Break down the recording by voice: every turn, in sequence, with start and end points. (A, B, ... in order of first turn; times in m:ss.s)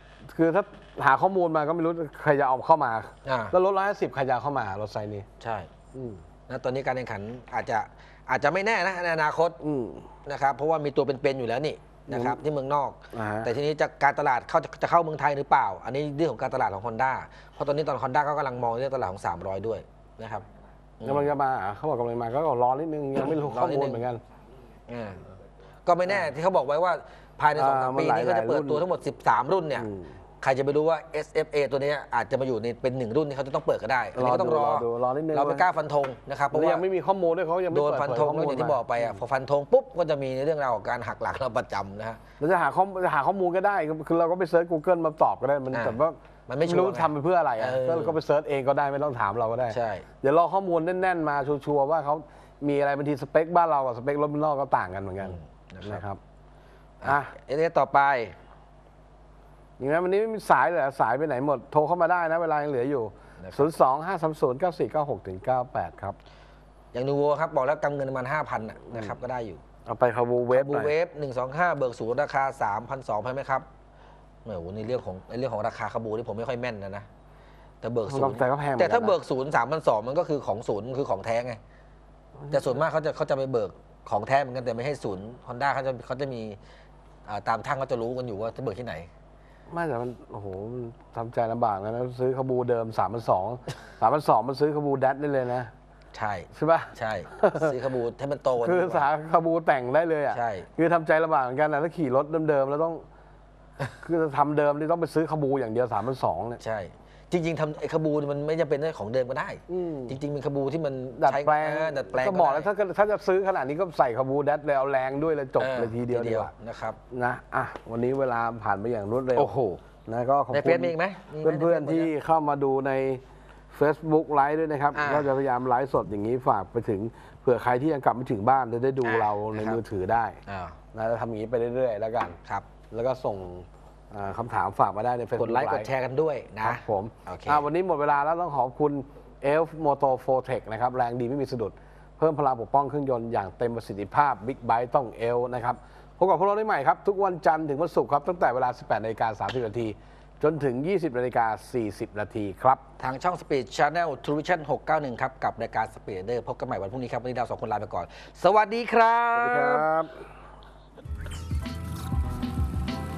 0:00.3-0:05.3 A
0:03.2-0:03.6 B
0:05.4-0:05.7 B
0:05.9-0:06.2 A
0:06.5-0:09.6 B
0:09.6-0:10.1 A
0:10.2-0:20.4 B
0:12.1-0:12.4 A
0:13.1-0:13.5 A
0:21.0-0:21.3 B
0:21.0-0:24.2 A
0:23.3-0:24.1 B
0:24.9-0:25.3 B
0:25.8-0:29.9 B
0:27.6-0:28.8 A
0:29.8-0:30.2 A
0:30.4-0:36.8 B
0:34.1-0:35.7 A
0:36.5-0:39.2 A
0:37.7-0:42.2 B
0:42.4-0:56.2 A
0:45.7-0:48.2 B
0:49.7-0:50.1 B
0:55.2-0:56.0 B
0:57.0-0:58.3 B
0:57.0-0:57.3 A
0:59.8-1:06.2 A
1:03.4-1:03.7 B
1:06.9-1:09.6 B
1:09.8-1:10.9 A
1:10.5-1:13.6 B
1:14.4-1:17.0 B
1:17.8-1:21.6 B
1:18.1-1:19.2 A
1:22.5-1:26.6 B
1:27.2-1:29.1 B
1:29.7-1:35.7 A
1:36.1-1:39.1 B
1:36.5-1:37.8 A
1:38.6-1:43.0 A
1:40.3-1:40.7 B
1:44.0-1:46.6 A
1:46.6-1:52.7 B
1:49.7-1:50.2 A
1:51.2-1:56.5 A
1:55.6-1:57.0 B
1:57.1-2:10.4 A
1:59.3-1:59.8 B
2:00.5-2:02.1 B
2:04.9-2:05.3 B
2:09.0-2:09.8 B
2:10.4-2:10.8 B
2:10.9-2:12.4 A
2:12.4-2:12.7 B
2:12.9-2:15.9 A
2:15.3-2:17.7 B
2:16.6-2:32.8 A
2:33.0-2:39.9 B
2:39.3-2:40.2 A